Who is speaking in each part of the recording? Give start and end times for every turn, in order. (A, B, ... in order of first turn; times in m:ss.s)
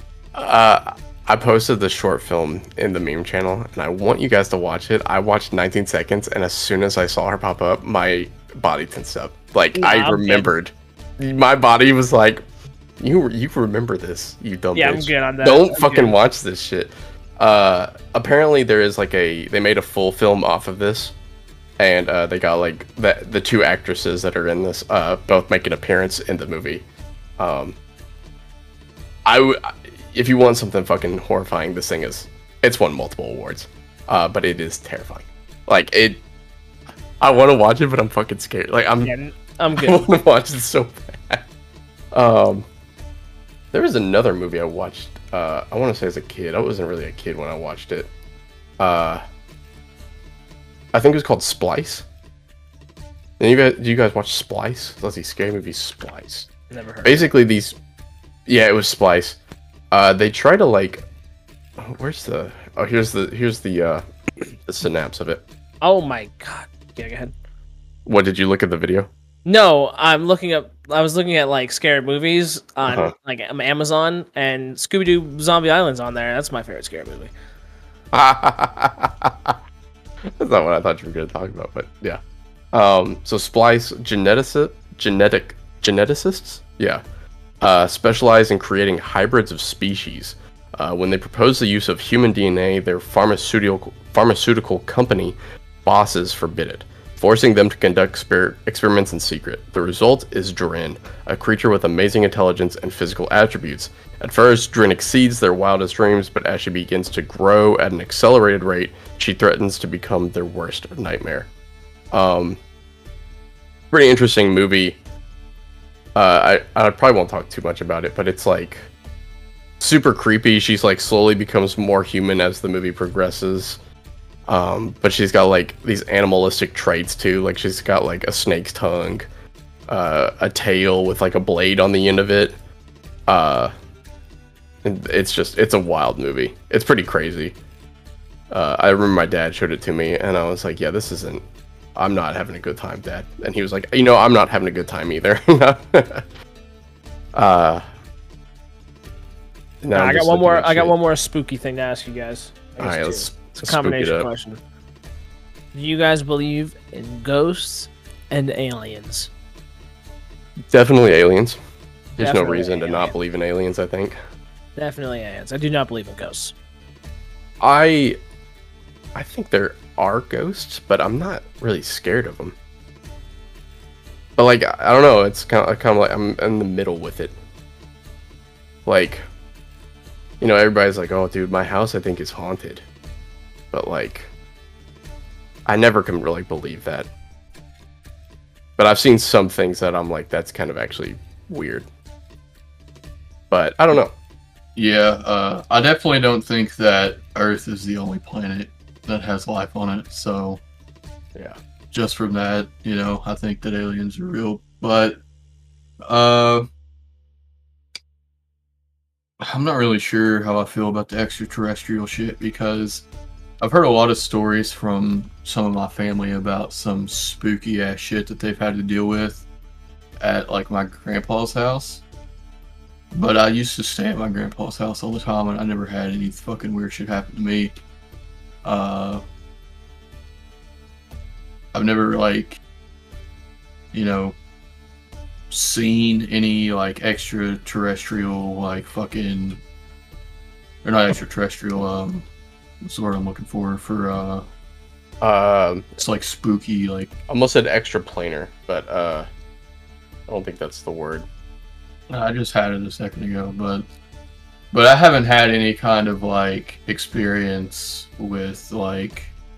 0:00.3-0:12.4 A
0:09.8-0:10.5 B
0:13.0-0:21.1 A
0:14.7-0:16.1 B
0:21.8-0:26.8 A
0:27.4-0:27.8 A
0:29.2-0:36.2 A
0:37.2-0:39.1 A
0:39.0-0:40.1 B
0:39.8-0:41.4 A
0:42.1-0:42.7 A
0:43.7-0:48.1 A
0:48.8-0:49.2 A
0:50.9-0:52.0 A
0:53.4-0:56.5 A
0:56.7-0:57.3 B
0:57.0-0:57.8 A
0:58.5-0:59.4 A
0:59.9-1:01.0 A
1:01.8-1:05.4 A
1:05.8-1:07.3 B
1:08.0-1:09.1 A
1:09.4-1:17.3 B
1:12.8-1:13.1 A
1:18.1-1:19.6 A
1:20.3-1:22.2 A
1:22.7-1:27.0 A
1:27.6-1:51.5 A
1:52.1-1:52.6 A
1:53.9-1:55.0 A
1:56.2-1:58.8 A
1:59.8-2:03.8 A
2:04.5-2:09.3 A
2:09.9-2:12.5 A
2:13.3-2:13.7 A
2:14.8-2:17.6 A
2:18.5-2:21.4 A
2:21.9-2:26.2 A
2:27.3-2:27.8 A
2:29.8-2:30.9 A
2:29.9-2:34.6 B
2:32.8-2:34.3 A
2:35.7-2:39.3 B
2:40.7-2:41.6 A
2:42.2-2:43.1 B
2:42.2-2:44.2 A
2:44.8-2:46.5 B
2:47.6-2:48.2 A
2:49.1-2:52.6 A
2:54.4-2:57.3 A
2:58.8-2:59.2 A
3:00.4-3:02.8 A
3:03.7-3:04.3 A
3:05.6-3:07.1 A
3:08.8-3:11.9 A
3:13.5-3:14.1 A
3:14.8-3:20.6 C
3:21.9-3:25.2 C
3:26.0-3:26.7 C
3:29.4-3:33.1 C
3:33.6-3:39.4 C
3:40.2-3:42.0 C
3:43.1-3:47.8 C
3:48.6-3:49.2 C
3:51.7-3:52.6 C
3:53.9-3:54.4 C
3:55.5-3:59.6 C
4:00.8-4:02.3 C
4:02.8-4:04.4 C
4:05.2-4:06.0 A
4:06.0-4:07.1 C
4:07.3-4:09.3 A
4:10.3-4:11.2 A
4:12.1-4:13.9 C
4:14.7-4:19.3 C